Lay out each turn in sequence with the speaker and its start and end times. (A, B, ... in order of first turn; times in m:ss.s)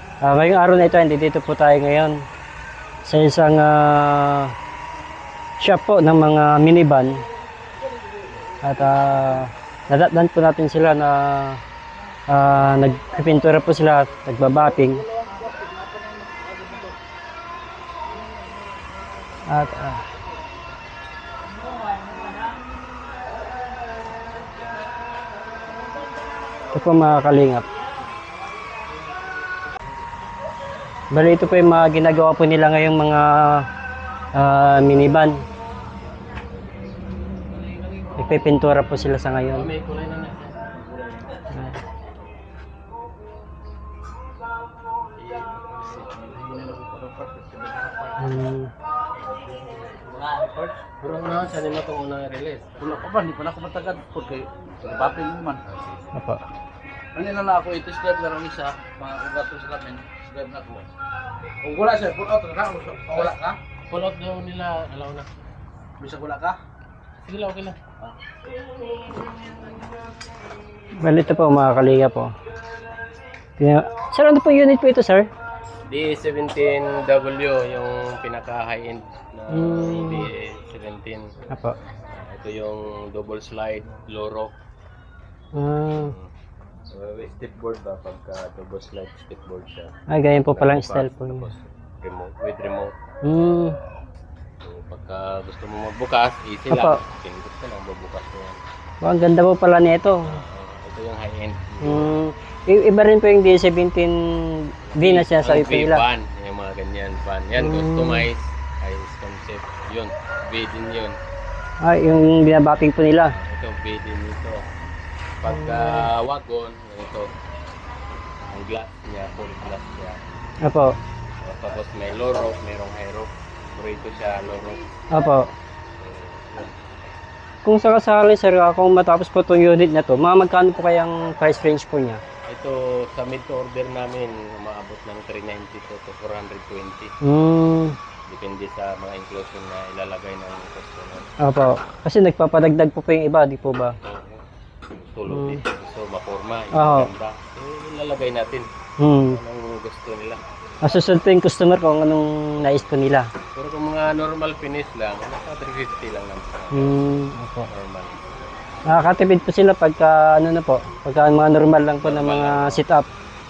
0:00.2-0:02.2 A
0:03.1-0:04.5 A
0:05.6-0:07.2 A
0:08.6-0:11.6 A
0:12.3-0:15.0 A
0:16.4-0:16.8 B
0:19.5-0:20.0 A
0:26.7-0:27.7 A
0:31.1-0:33.7 A
0:34.4-0:35.4 A
0:38.2-0:39.7 A
0:39.5-0:40.8 C
0:41.5-0:41.8 A
0:45.2-0:46.8 C
0:46.6-0:48.2 B
0:48.2-0:48.7 A
0:49.9-0:53.2 C
0:52.8-0:55.6 B
0:55.6-0:56.2 C
0:56.2-0:56.4 A
0:57.2-1:00.9 B
1:01.6-1:03.6 B
1:03.1-1:03.4 C
1:03.9-1:05.3 C
1:06.0-1:06.6 B
1:07.2-1:07.8 C
1:11.0-1:12.3 A
1:13.6-1:15.3 A
1:15.9-1:21.4 C
1:19.5-1:20.3 A
1:21.5-1:21.8 A
1:22.1-1:24.5 C
1:25.6-1:26.1 A
1:25.9-1:26.3 C
1:26.9-1:33.0 C
1:30.1-1:31.4 A
1:33.2-1:33.8 A
1:34.6-1:38.6 C
1:36.7-1:37.0 A
1:39.0-1:40.3 A
1:40.2-1:42.2 C
1:41.8-1:46.0 A
1:44.9-1:51.2 C
1:47.6-1:48.3 A
1:51.8-1:53.3 A
1:53.3-1:54.7 C
1:55.4-1:57.3 C
1:55.5-1:56.0 A
1:58.5-2:00.2 C
2:00.6-2:01.0 A
2:01.4-2:04.8 C
2:05.1-2:05.5 A
2:06.0-2:06.8 C
2:07.6-2:12.2 A
2:12.5-2:17.1 C
2:17.2-2:18.0 A
2:18.3-2:21.3 C
2:21.4-2:24.0 A
2:24.0-2:24.4 C
2:25.1-2:28.7 C
2:25.3-2:25.6 A
2:26.7-2:27.1 A
2:29.0-2:29.4 A
2:29.2-2:30.4 C
2:30.8-2:33.3 A
2:33.5-2:37.1 C
2:36.7-2:37.7 A
2:37.7-2:38.3 C
2:38.9-2:43.1 A
2:42.0-2:42.8 C